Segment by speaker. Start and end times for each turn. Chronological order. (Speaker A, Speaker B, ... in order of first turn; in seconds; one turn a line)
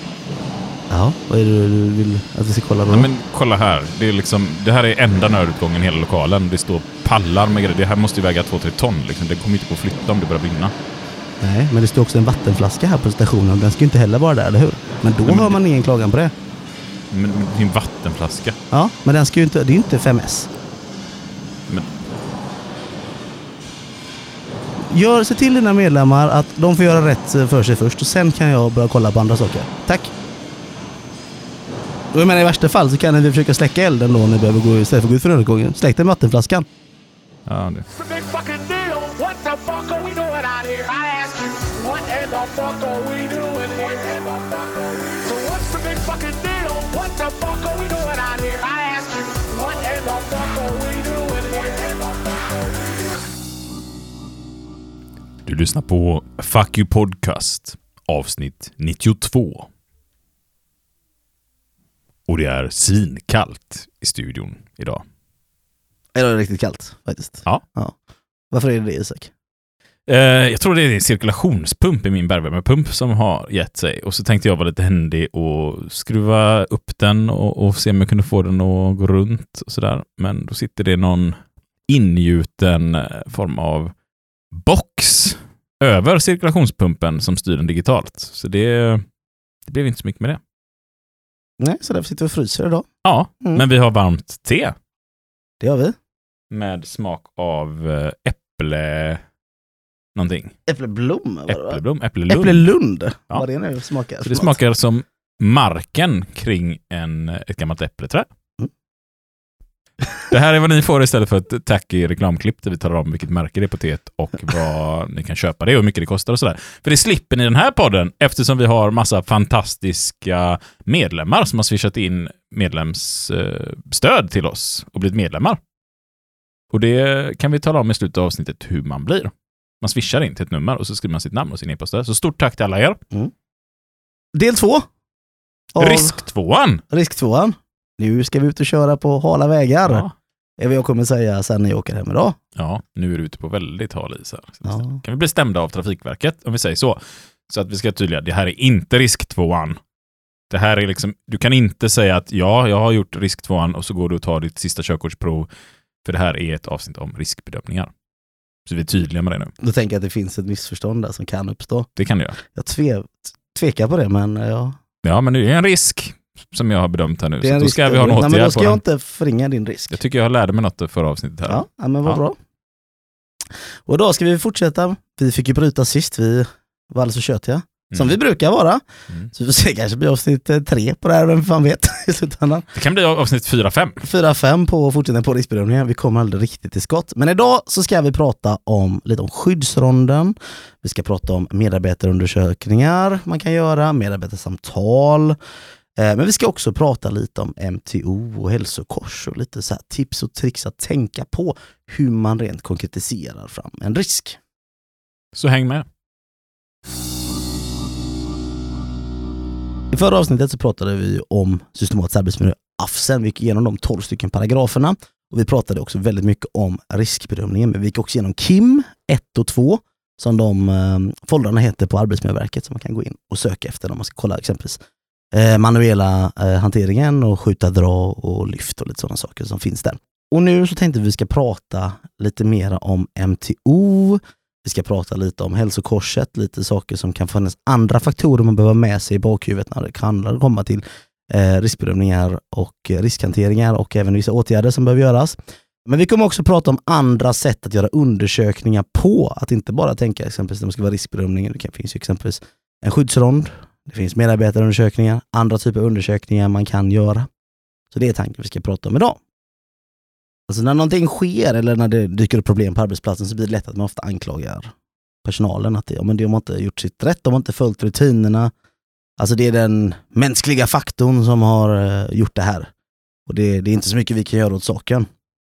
Speaker A: 0.9-3.1
Speaker B: 2.9-10.7
Speaker A: 11.4-16.3
Speaker B: 15.2-15.6
Speaker B: 17.1-18.6
Speaker A: 18.7-20.5
Speaker A: 24.9-30.1
Speaker A: 32.1-36.6
Speaker B: 37.5-37.9
Speaker C: 37.9-53.1
Speaker B: 55.5-59.7
Speaker B: 62.3-65.0
Speaker A: 66.1-68.0
Speaker A: 68.5-69.3
Speaker B: 70.1-83.9
Speaker B: 84.5-89.0
Speaker B: 89.7-90.4
Speaker A: 91.6-92.9
Speaker B: 93.0-94.8
Speaker A: 95.6-96.0
Speaker B: 96.5-99.2
Speaker B: 100.1-100.5
Speaker A: 100.7-104.6
Speaker B: 101.5-102.7
Speaker B: 104.2-108.3
Speaker B: 110.2-125.6
Speaker B: 126.7-133.0
Speaker A: 134.3-134.9
Speaker A: 135.7-136.2
Speaker B: 135.8-136.8
Speaker A: 136.9-140.1
Speaker B: 139.8-140.1
Speaker A: 140.6-142.4
Speaker B: 142.6-149.8
Speaker A: 144.7-145.0
Speaker B: 150.5-155.5
Speaker B: 156.0-157.9
Speaker B: 158.7-159.5
Speaker A: 159.6-161.9
Speaker B: 162.0-162.4
Speaker A: 162.4-164.8
Speaker B: 165.0-168.8
Speaker A: 167.4-170.0
Speaker B: 169.9-172.2
Speaker A: 171.5-172.4
Speaker A: 173.8-182.7
Speaker B: 182.7-184.1
Speaker A: 184.0-195.4
Speaker A: 196.0-204.4
Speaker B: 205.3-205.8
Speaker A: 209.9-224.8
Speaker A: 225.3-257.3
Speaker A: 257.9-259.2
Speaker A: 260.5-264.7
Speaker A: 265.2-268.5
Speaker A: 269.2-272.7
Speaker A: 273.3-275.1